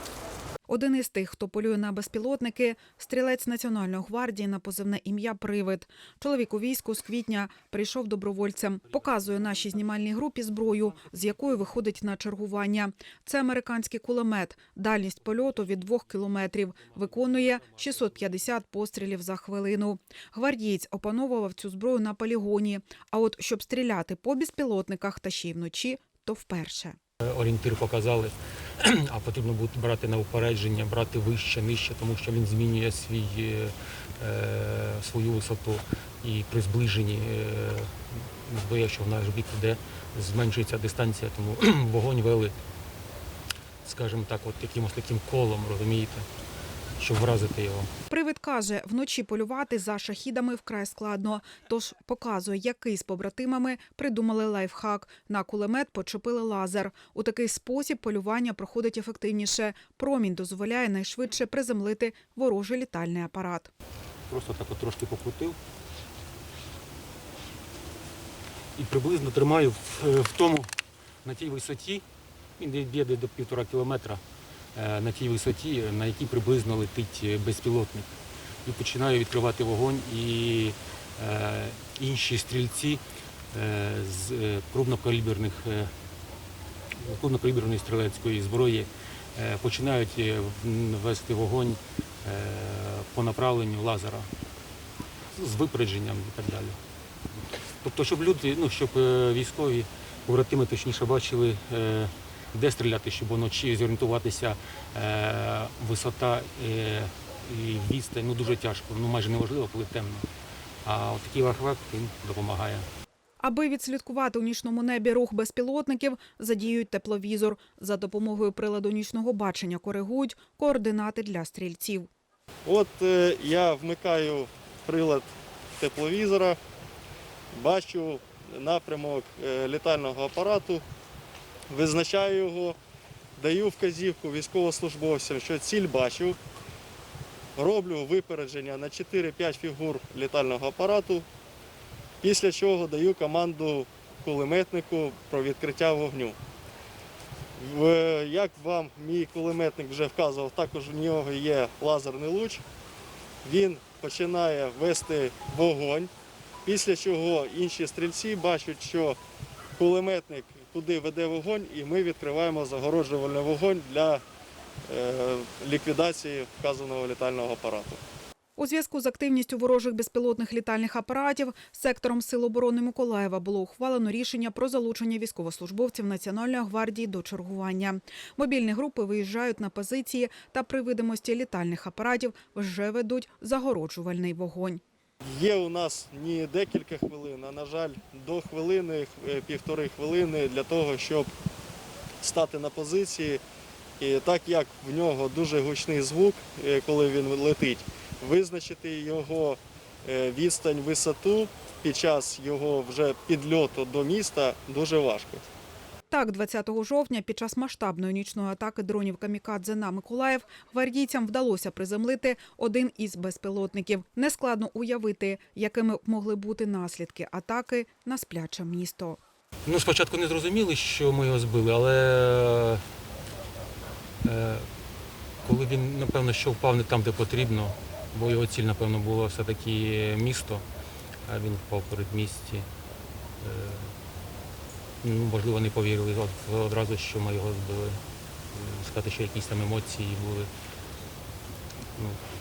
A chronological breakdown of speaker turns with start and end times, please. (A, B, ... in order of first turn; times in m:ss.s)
0:00.7-0:27.0 A
0:27.2-0:42.5 B
0:43.8-0:46.3 B
0:47.0-0:47.9 B
0:48.1-1:03.7 A
1:04.3-1:05.6 B
1:08.8-1:10.7 B
1:11.2-1:12.0 B
1:12.6-1:14.2 B
1:14.7-1:18.1 B
1:18.6-1:23.0 B
1:23.5-1:25.9 B
1:27.0-1:34.3 B
1:35.3-1:36.8 B
1:37.8-1:50.3 B
1:50.8-1:52.9 B
1:53.4-2:02.1 A
2:02.6-2:05.3 C
2:05.8-2:06.6 C
2:07.5-2:10.8 C
2:11.7-2:12.8 C
2:13.4-2:16.4 C
2:17.6-2:21.2 C
2:22.2-2:26.4 C
2:27.6-2:32.6 C
2:33.4-2:36.1 C
2:36.6-2:39.2 C
2:39.8-2:44.2 C
2:44.9-2:48.0 C
2:48.6-3:04.8 A
3:05.3-3:11.3 C
3:12.2-3:13.4 C
3:14.0-3:25.5 C
3:26.1-3:39.2 A
3:39.6-3:42.8 B
3:44.2-3:44.7 B
3:45.4-3:50.6 B
3:51.2-3:52.7 B
3:53.4-3:53.9 B
3:55.0-3:58.0 B
3:58.5-4:00.5 B